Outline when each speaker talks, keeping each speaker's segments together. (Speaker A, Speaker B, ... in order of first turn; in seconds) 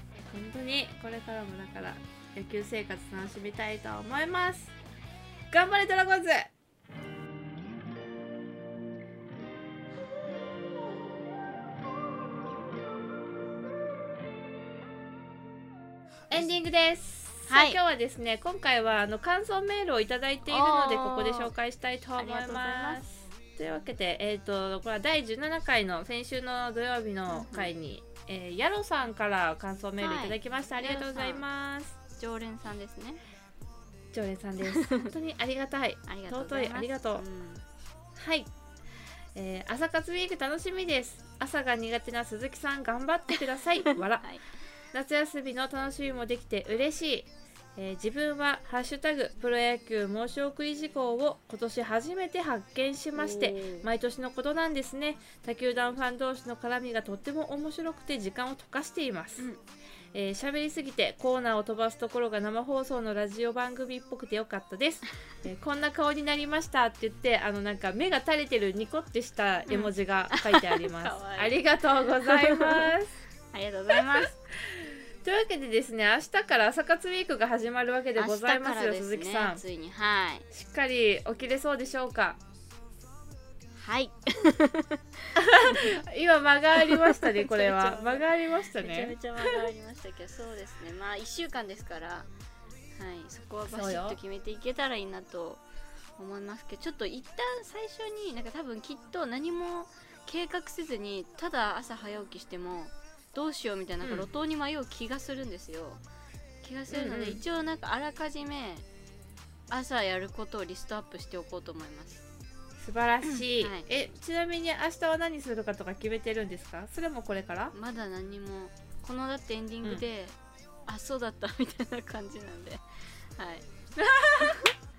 Speaker A: 0.3-4.7, 5.5-6.5, 16.3-31.9, 34.1-37.2, 38.2-38.5, 39.3-44.3, 44.9-59.5, 60.1-73.1, 73.9-79.6, 80.5-82.4, 85.3-89.7, 93.7-94.2, 104.0-104.3, 106.9-107.4, 112.8-117.7, 124.1-124.6
Speaker B: 17.5-17.8, 20.5-21.5, 22.2-23.0, 27.3-27.7, 30.0-31.4, 32.1-33.2, 34.7-35.1, 36.1-37.6, 43.8-44.4, 53.1-53.9, 69.7-71.6, 72.2-72.9, 73.5-74.3, 78.2-80.5, 83.8-85.0, 85.5-85.9, 86.8-92.3, 93.0-95.6, 96.2-106.0, 106.6-108.8, 109.7-112.2, 113.2-113.9, 117.7-120.3, 120.9-123.6, 124.3-124.7